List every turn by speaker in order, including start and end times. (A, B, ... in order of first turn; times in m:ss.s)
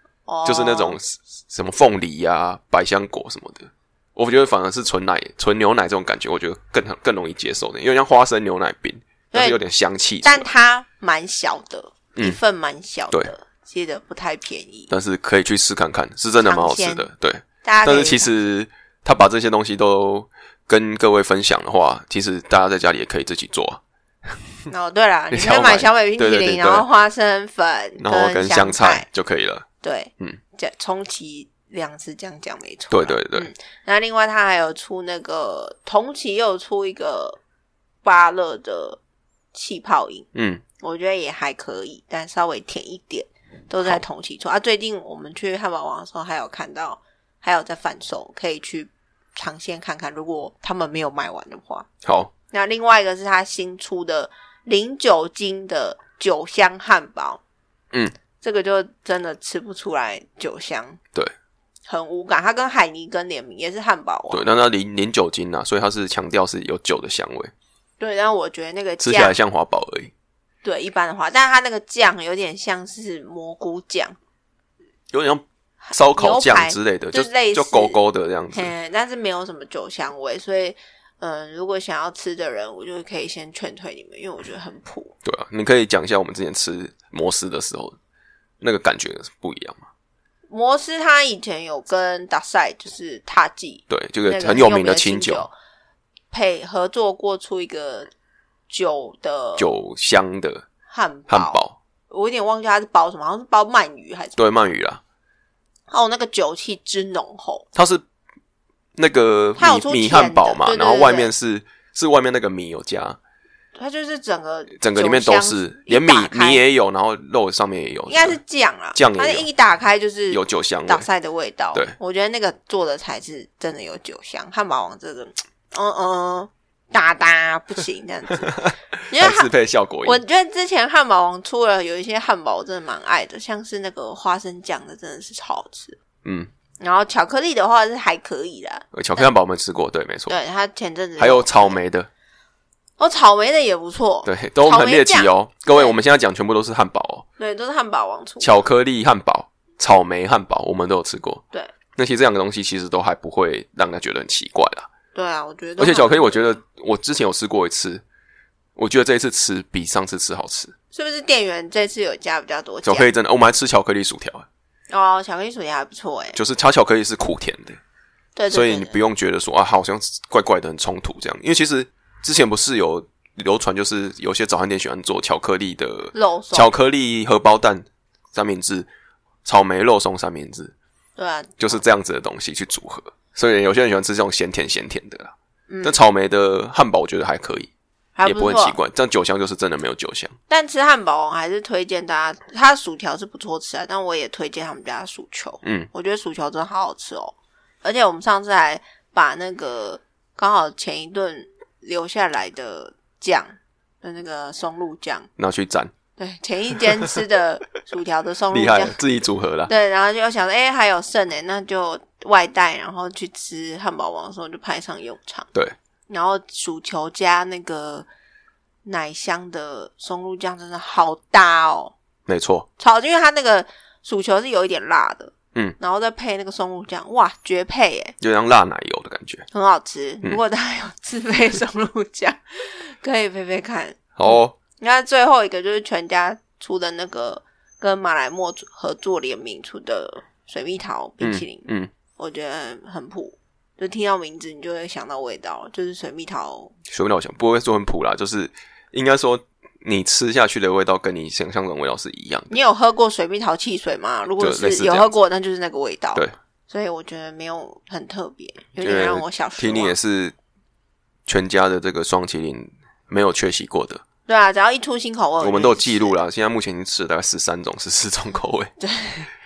0:00.3-0:01.0 A
0:00.4-0:10.5 B
0:09.3-0:09.6 A
0:10.2-0:14.9 A
0:14.9-0:24.4 B
0:16.4-0:17.1 A
0:17.6-0:18.3 A
0:24.7-0:29.1 A
0:25.3-0:26.9 B
0:28.0-0:29.6 B
0:29.8-0:37.4 A
0:32.9-0:33.5 B
0:38.0-0:39.0 A
0:39.5-0:40.3 A
0:40.3-0:40.6 B
0:40.8-0:51.9 A
0:52.0-0:52.3 B
0:52.5-0:57.4 A
0:58.4-1:01.0 A
1:01.9-1:04.5 A
1:04.3-1:07.5 B
1:08.0-1:09.4 A
1:09.0-1:10.1 B
1:10.6-1:14.2 A
1:15.1-1:18.7 B
1:15.9-1:18.0 A
1:18.5-1:25.1 A
1:25.2-1:28.0 B
1:28.6-1:29.9 B
1:30.5-1:35.5 A
1:33.9-1:35.5 B
1:36.3-1:38.1 A
1:38.7-1:39.7 A
1:39.6-1:40.6 B
1:40.9-1:44.4 A
1:41.3-1:41.8 B
1:44.4-1:45.0 B
1:45.9-1:47.6 A
1:47.8-1:48.0 B
1:49.0-1:53.2 B
1:49.6-1:51.3 A
1:53.8-1:56.6 A
1:54.8-1:58.4 B
1:58.1-2:09.5 A
1:58.9-1:59.5 B
2:00.3-2:01.0 B
2:08.4-2:10.2 B
2:10.0-2:16.0 A
2:16.2-2:16.5 B
2:16.8-2:19.3 A
2:18.9-2:20.4 B
2:20.3-2:21.8 A
2:21.2-2:22.1 B
2:23.0-2:25.9 A
2:24.2-2:27.2 B
2:27.4-2:28.6 A
2:28.4-2:31.4 B
2:32.0-2:34.9 B
2:35.1-2:36.6 A
2:35.8-2:38.0 B
2:38.8-2:40.8 B
2:40.9-2:43.1 A
2:42.8-2:44.4 B
2:44.9-2:46.4 A
2:46.3-2:47.8 B
2:48.4-2:49.0 A
2:48.5-2:58.9 B
2:56.1-2:56.7 A
2:59.4-3:00.7 B
3:01.2-3:01.8 A
3:01.6-3:07.7 B
3:05.7-3:06.0 A
3:08.2-3:08.8 A
3:08.2-3:10.4 B
3:10.5-3:25.3 A
3:15.6-3:15.9 B
3:25.4-3:25.9 B
3:26.2-3:29.0 A
3:28.5-3:29.7 B
3:29.7-3:35.5 A
3:36.1-3:38.1 A
3:38.8-3:41.9 A
3:42.3-3:42.7 B
3:42.8-3:48.2 A
3:48.2-3:49.4 B
3:49.5-4:06.7 A
3:54.2-3:54.6 B
4:01.2-4:01.9 B
4:06.9-4:12.5 B
4:12.5-4:20.0 A
4:14.4-4:15.1 B
4:18.8-4:20.4 B
4:21.3-4:24.0 B
4:24.3-4:26.2 A
4:25.4-4:28.7 B
4:28.8-4:29.3 A